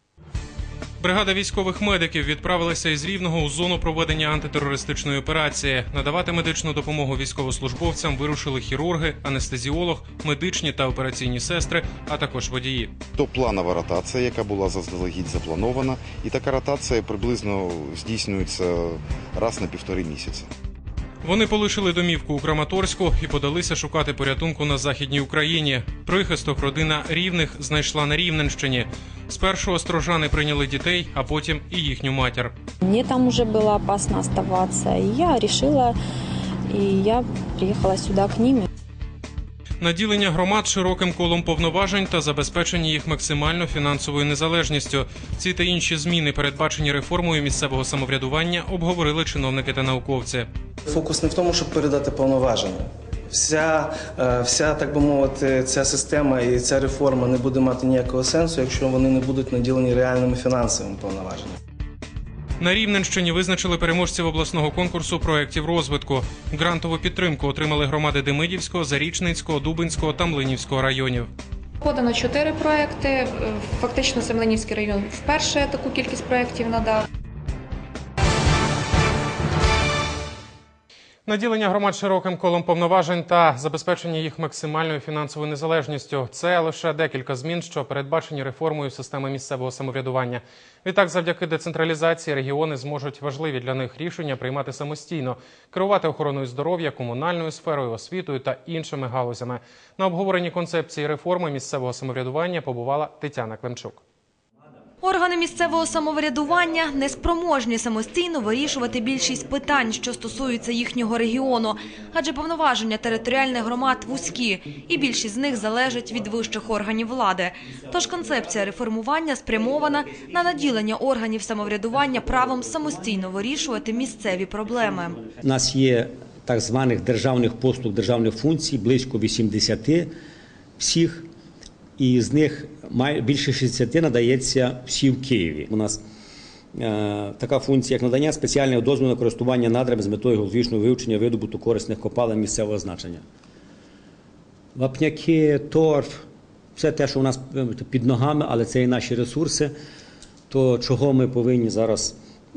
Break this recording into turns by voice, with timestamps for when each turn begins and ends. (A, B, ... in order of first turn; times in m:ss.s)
0:01.0-0:12.9 A
0:13.1-0:20.5 B
0:21.2-0:32.5 A
0:32.8-0:35.9 C
0:36.7-0:38.6 C
0:39.8-0:50.5 A
0:50.9-1:01.6 D
1:02.6-1:11.3 A
1:11.8-1:17.0 E
1:21.2-1:44.0 A
1:45.0-2:05.2 F
2:05.4-2:10.1 G
2:10.8-2:11.3 G
2:12.0-2:16.0 G
2:16.8-2:23.2 G
2:24.7-2:29.7 G
2:30.5-2:32.2 G